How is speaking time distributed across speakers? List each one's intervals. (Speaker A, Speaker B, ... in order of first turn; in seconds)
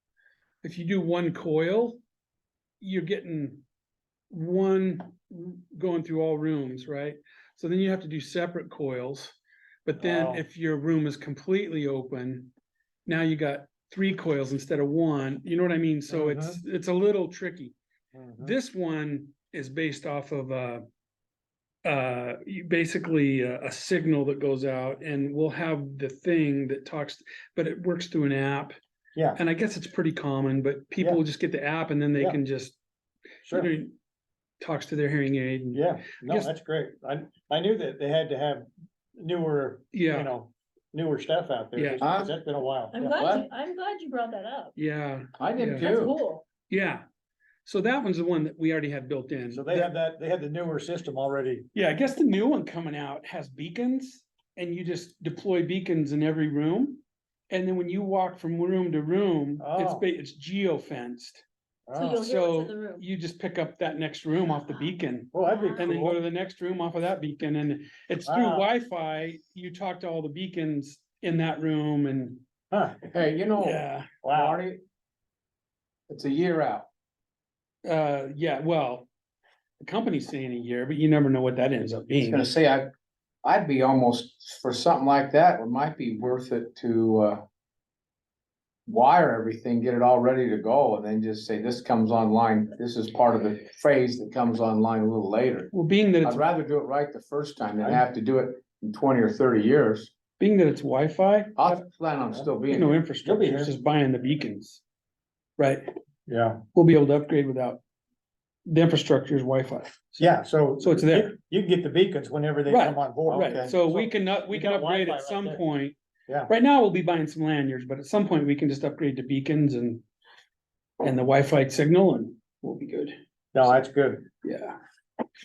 Speaker A: 0.6-2.0, 2.8-3.6, 4.3-9.3, 9.8-12.5, 13.1-17.7, 18.4-20.8, 21.8-28.8, 29.4-32.8, 33.5-33.9, 34.6-36.5, 39.9-40.3, 41.8-42.1, 44.8-45.9, 46.7-47.0, 47.6-49.9, 51.7-61.4, 62.1-72.4, 73.6-74.1, 77.8-79.1, 79.8-82.4, 95.7-96.4, 100.4-101.8, 102.7-104.8, 105.6-105.9, 106.7-107.8, 108.7-111.3, 112.7-116.0, 116.5-120.0, 121.0-123.2, 124.4-124.8
Speaker B: 10.0-10.4, 16.1-16.6, 18.1-18.5, 33.4-33.7, 35.7-38.7, 39.2-43.0, 49.5-51.7, 59.6-60.0, 61.9-62.2, 65.3-66.2, 68.2-68.7, 72.7-73.0, 74.2-74.6, 103.2-103.7, 106.3-106.6, 110.2-115.6, 123.5-124.3
Speaker C: 42.0-42.3, 43.0-43.5, 45.4-46.2, 73.1-74.8, 76.1-76.9, 82.2-82.9, 83.4-87.4, 88.9-100.1, 101.5-103.0
Speaker D: 42.9-44.8, 45.8-46.4, 61.9-63.0, 65.4-65.8